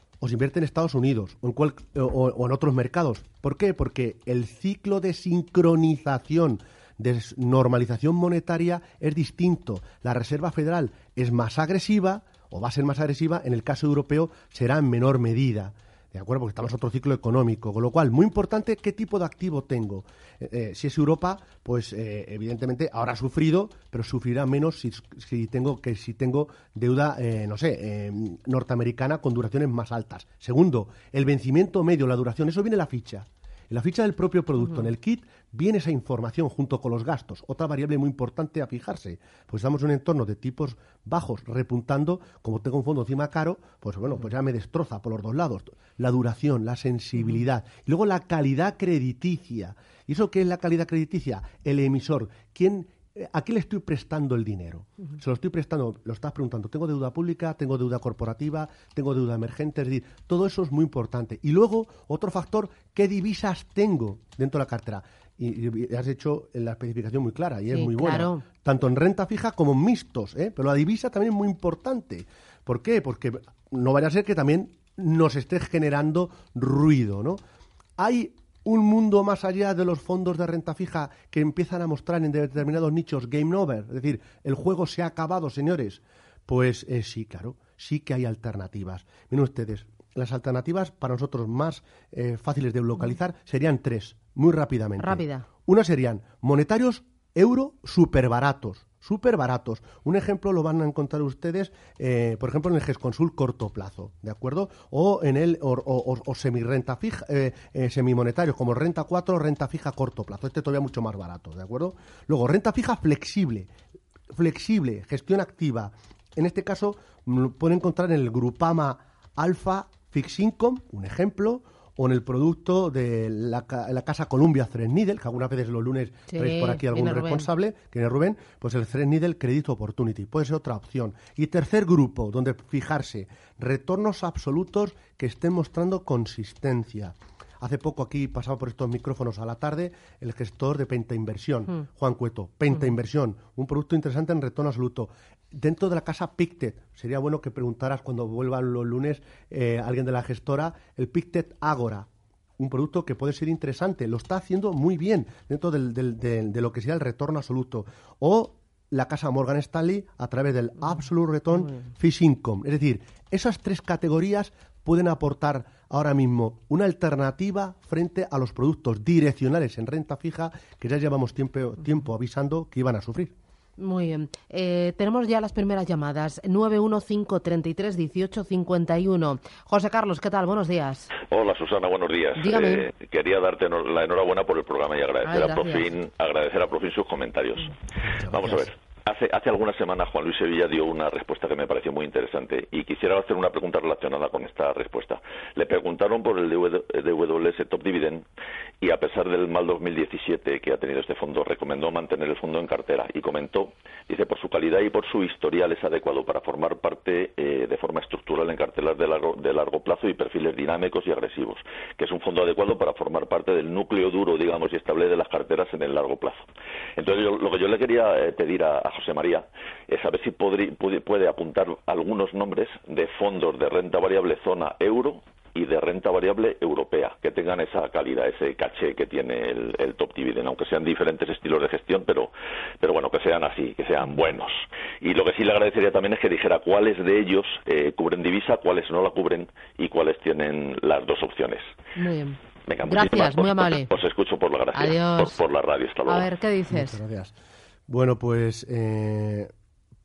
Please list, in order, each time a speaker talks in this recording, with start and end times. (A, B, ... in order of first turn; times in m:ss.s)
0:00.2-1:17.4 A
1:07.7-1:08.4 B
1:18.0-1:53.7 A
1:35.0-1:35.5 B
1:54.3-2:53.3 A
2:06.3-2:07.5 B
2:53.8-3:01.1 B
3:01.3-3:07.8 C
3:02.4-3:02.9 B
3:05.2-3:05.9 B
3:08.1-3:08.7 A
3:08.3-3:18.2 C
3:18.8-4:01.7 C
4:02.0-4:03.9 B
4:02.7-4:06.3 C
4:04.8-4:05.4 B
4:06.1-4:07.0 B
4:06.7-4:07.4 A
4:07.9-4:09.5 A